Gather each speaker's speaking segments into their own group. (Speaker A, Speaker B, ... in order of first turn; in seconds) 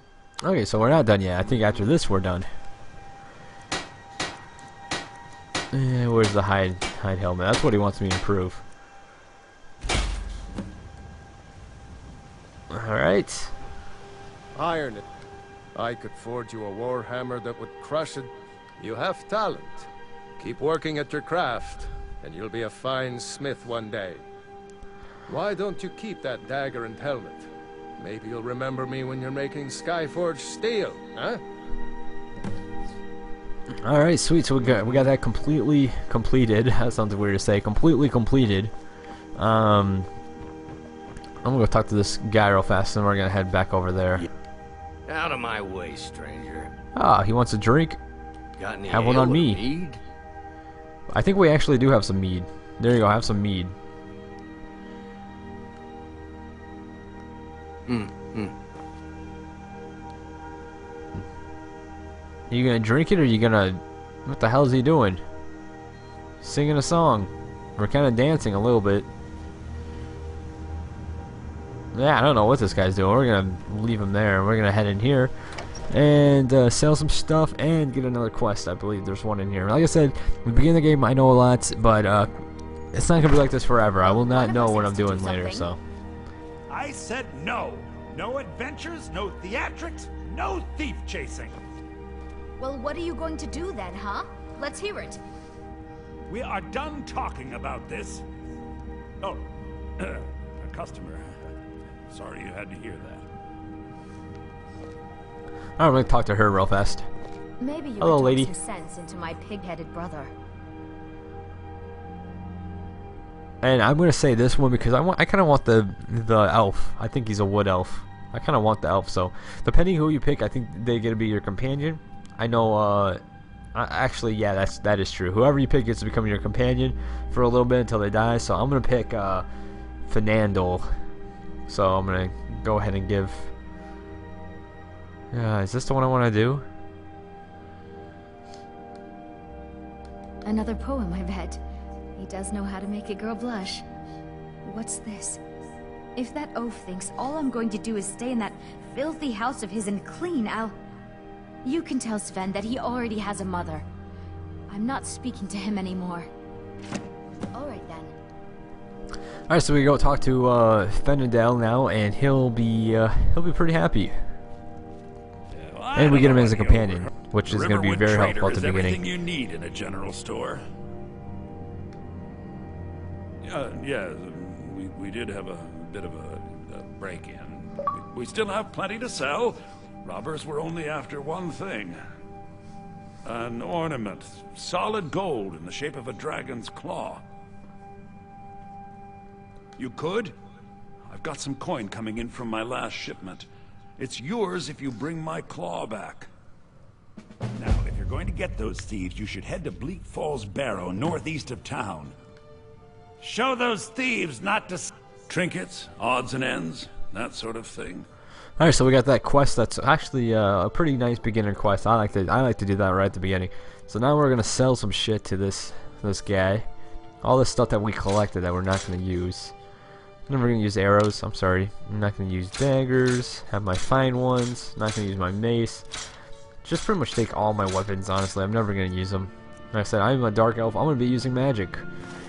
Speaker A: 0.4-2.5, 5.7-8.6, 12.7-13.5, 33.8-38.7, 39.4-40.1, 41.4-44.3, 46.9-48.0, 48.9-49.6, 51.1-53.7, 62.5-65.2, 66.4-69.1, 71.9-75.3, 75.9-82.3, 82.9-85.8, 105.8-107.0, 108.0-108.5, 113.6-123.2, 123.7-129.4, 130.1-130.9, 131.7-133.5, 135.3-136.6, 159.5-164.2, 165.9-169.0, 208.6-216.7, 217.2-219.5, 220.3-225.9, 226.6-231.8
Speaker B: 14.5-15.0, 15.7-24.2, 25.3-31.4
Speaker C: 45.1-46.7, 48.6-50.0, 57.9-58.5
Speaker D: 84.0-85.7, 92.6-95.2, 107.6-110.3, 140.4-141.6, 142.2-143.8, 144.6-145.4, 146.2-150.7, 151.6-153.8, 154.7-156.3, 157.5-158.1
Speaker E: 86.7-91.6, 96.3-98.2, 99.2-99.5, 100.0-101.3, 102.1-103.2, 165.5-170.6, 173.4-182.0, 183.2-187.2, 189.8-190.3, 191.1-193.5, 194.0-196.3, 197.6-202.2, 203.2-208.1